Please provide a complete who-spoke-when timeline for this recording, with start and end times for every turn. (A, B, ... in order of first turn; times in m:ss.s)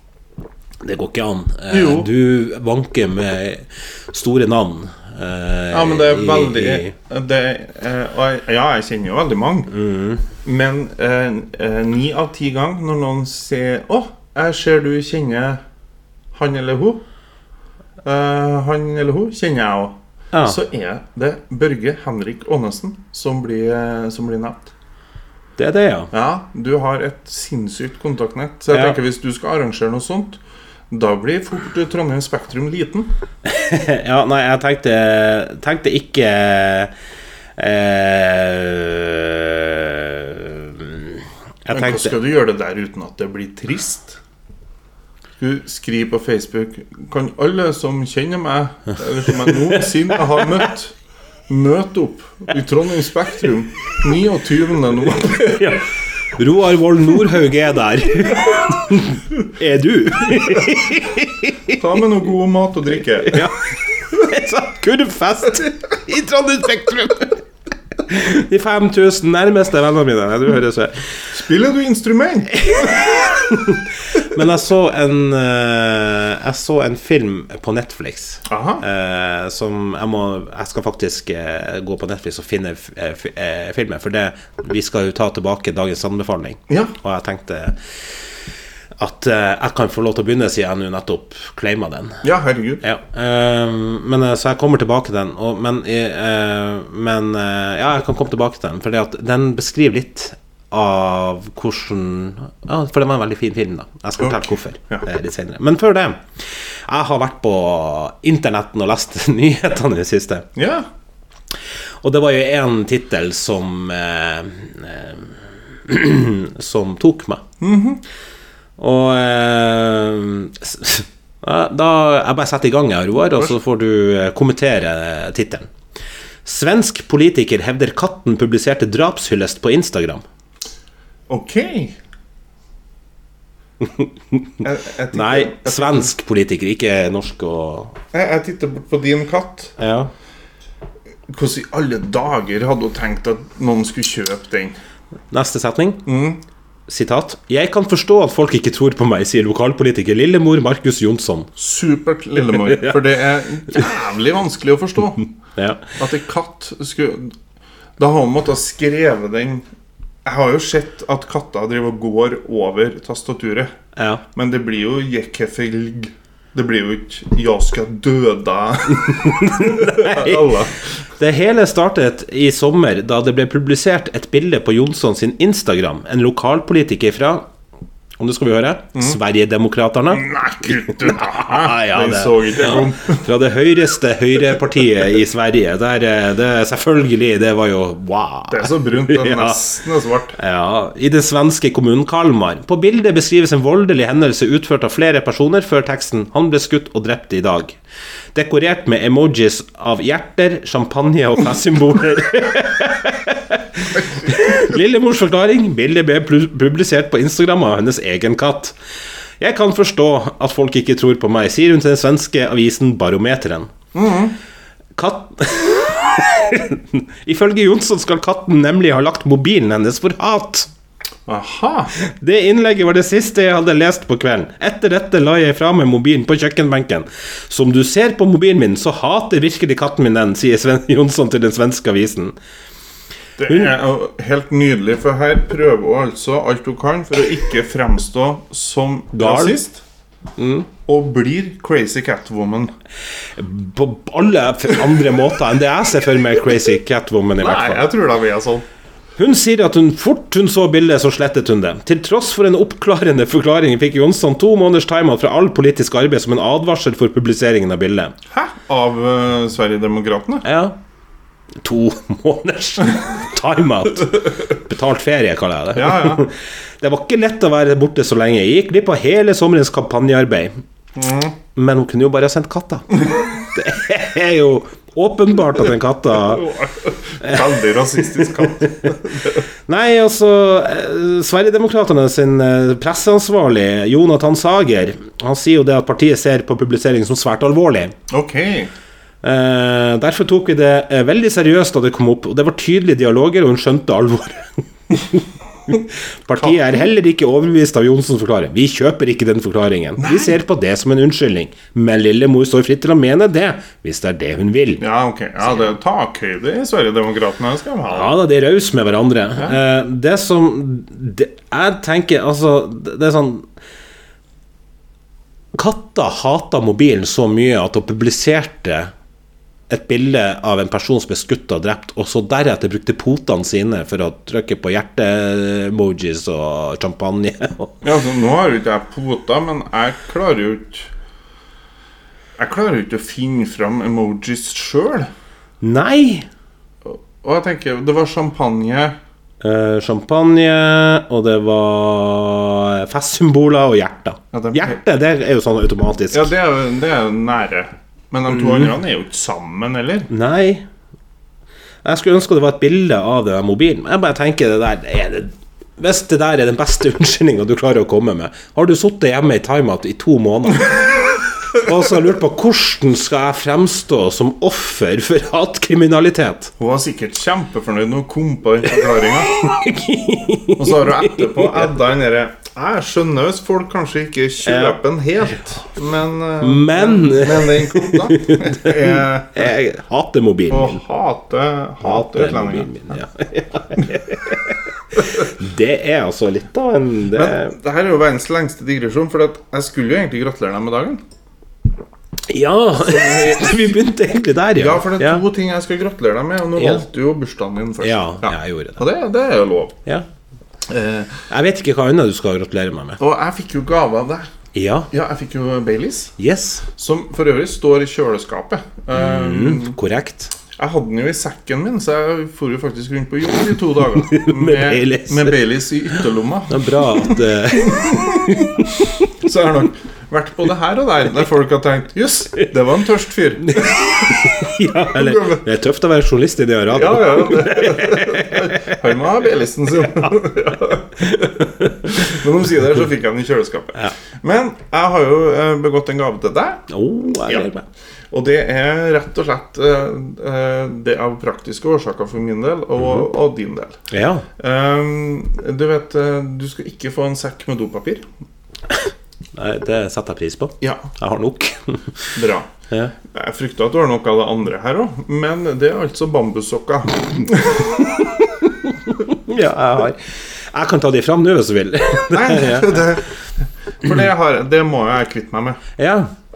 0:00.8-0:06.9 A
0:01.7-0:02.1 B
0:05.7-0:09.7 B
0:09.7-0:10.2 A
0:10.4-0:15.6 B
0:16.3-0:17.0 B
0:18.0-0:24.7 B
0:20.3-0:20.6 A
0:25.6-0:26.1 A
0:26.1-0:33.1 B
0:28.7-0:29.0 A
0:33.4-0:36.9 A
0:37.6-0:42.2 A
0:41.7-0:44.2 B
0:45.4-0:50.9 B
0:49.6-0:50.6 A
0:51.5-0:55.6 B
0:55.4-0:55.8 A
0:56.4-1:01.8 A
1:01.7-1:03.4 B
1:03.3-1:07.4 A
1:08.0-1:11.2 A
1:11.3-1:13.0 B
1:12.5-1:27.8 A
1:18.5-1:18.8 B
1:26.7-1:26.9 B
1:29.0-1:32.2 A
1:32.2-1:32.8 B
1:32.8-1:50.5 A
1:44.2-1:45.0 B
1:50.6-1:50.9 B
1:52.0-1:57.4 A
1:57.6-1:58.0 B
1:58.8-2:05.7 A
2:06.4-2:10.2 A
2:11.3-2:12.0 B
2:13.8-2:14.5 A
2:14.6-2:16.1 B
2:15.1-2:18.0 A
2:18.1-2:19.7 B
2:19.8-2:20.1 A
2:21.3-2:24.8 B
2:25.3-2:26.0 A
2:26.0-2:26.4 B
2:26.9-2:31.5 A
2:31.6-2:35.2 B
2:32.6-2:33.0 A
2:35.6-2:35.9 A
2:36.0-2:37.3 B
2:38.0-2:39.6 B
2:40.2-2:43.7 B
2:44.0-2:44.2 A
2:44.3-2:50.8 B
2:49.0-2:50.6 A
2:51.2-2:57.5 A
2:58.2-3:00.3 A
3:00.1-3:03.2 B
3:00.8-3:09.6 A
3:08.5-3:10.4 B
3:10.4-3:17.8 A
3:18.3-3:28.8 A
3:29.4-3:33.7 A
3:33.9-3:34.4 B
3:35.0-3:40.7 A
3:41.2-3:41.9 B
3:42.0-3:52.3 A
3:53.4-3:59.8 B
3:59.1-3:59.6 A
4:00.4-4:00.7 A
4:00.8-4:02.7 B
4:03.3-4:07.8 A
4:07.4-4:08.6 B
4:09.2-4:18.1 A
4:18.3-4:20.4 B
4:20.4-4:20.8 A
4:21.6-4:30.6 A
4:25.7-4:26.3 B
4:31.0-4:31.4 B
4:31.5-4:36.5 A
4:36.2-4:39.4 B
4:39.7-4:47.9 A
4:48.1-4:48.7 B
4:49.2-5:04.8 A
4:56.4-4:56.9 B
5:00.0-5:00.4 B
5:04.8-5:08.1 B
5:07.9-5:13.4 A
5:15.5-5:18.9 A
5:19.7-5:27.8 A
5:27.8-5:30.9 B
5:32.4-5:35.1 B
5:35.6-5:36.3 A
5:36.8-5:39.0 B
5:39.4-5:46.3 A
5:44.3-5:44.8 B
5:46.1-5:50.1 B
5:48.3-5:48.7 A
5:50.1-5:50.6 A
5:51.8-6:06.5 A
6:06.6-6:09.3 B
6:09.0-6:11.7 A
6:10.6-6:19.5 B
6:14.4-6:14.8 A
6:16.4-6:20.8 A
6:20.5-6:22.7 B
6:21.8-6:27.6 A
6:27.1-6:31.0 B
6:32.3-6:35.2 A
6:32.8-6:33.7 B
6:34.5-6:39.8 B
6:36.6-6:36.8 A
6:37.8-6:38.8 A
6:40.7-6:41.2 B
6:41.3-6:43.0 A
6:43.0-6:44.3 B
6:44.5-6:44.9 A
6:44.9-6:46.1 B
6:46.2-6:46.6 A
6:46.7-6:49.8 B
6:48.9-6:50.3 A
6:50.6-7:05.4 B
6:54.0-6:55.4 A
6:56.5-6:58.9 A
7:03.4-7:08.7 A
7:06.7-7:16.7 B
7:11.1-7:12.1 A
7:16.7-7:17.6 A
7:17.2-7:17.5 B
7:18.1-7:23.8 B
7:23.9-7:24.2 A
7:24.4-7:28.0 B
7:29.3-7:32.2 A
7:30.6-7:30.9 B
7:32.1-7:32.5 B
7:33.0-7:38.2 B
7:38.9-7:42.9 A
7:42.1-7:45.6 B
7:45.8-7:46.1 A